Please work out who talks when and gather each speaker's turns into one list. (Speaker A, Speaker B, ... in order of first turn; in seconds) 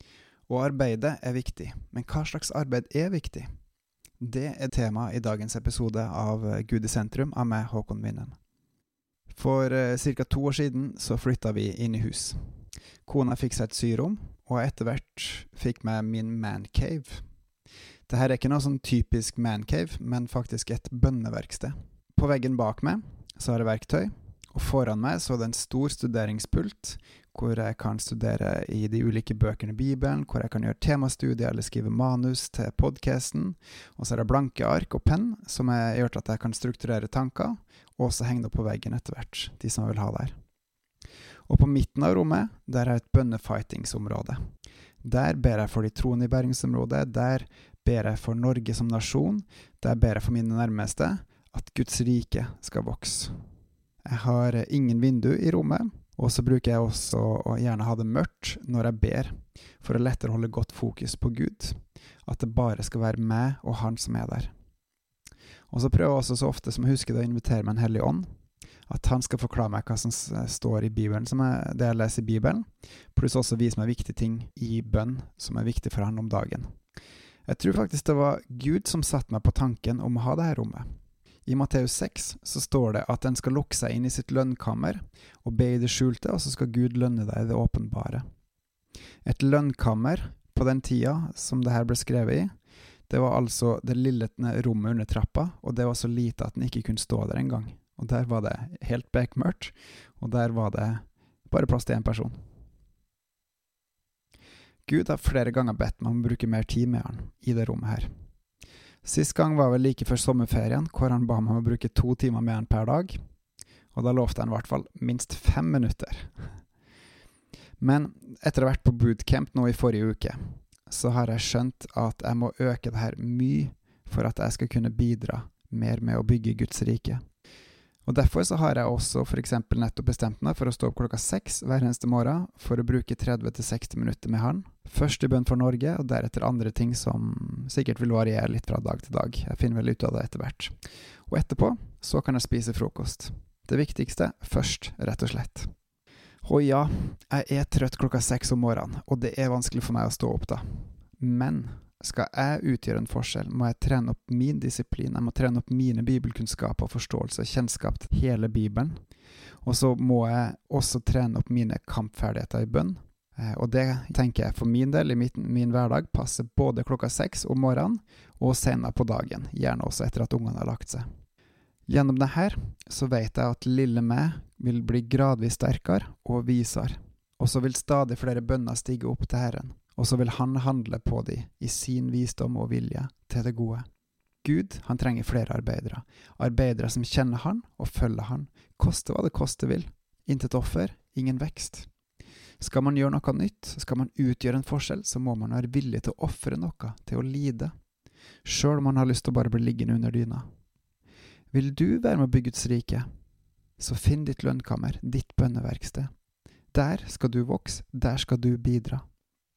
Speaker A: 0.5-3.5, 4.2-8.3, 9.3-12.4, 13.1-17.2, 18.1-40.4, 41.5-44.4, 45.0-53.4, 54.0-64.5, 65.7-68.3, 68.9-76.7, 77.5-80.9, 81.5-88.2, 89.2-92.5, 93.1-102.3, 104.9-108.1, 109.0-113.2, 113.9-116.3, 117.8-127.2, 128.1-140.7, 141.3-145.7, 146.4-159.0, 159.6-171.1, 171.9-183.8, 184.4-191.9, 192.6-197.7, 198.4-200.5, 201.5-203.1, 203.8-206.1, 206.7-209.0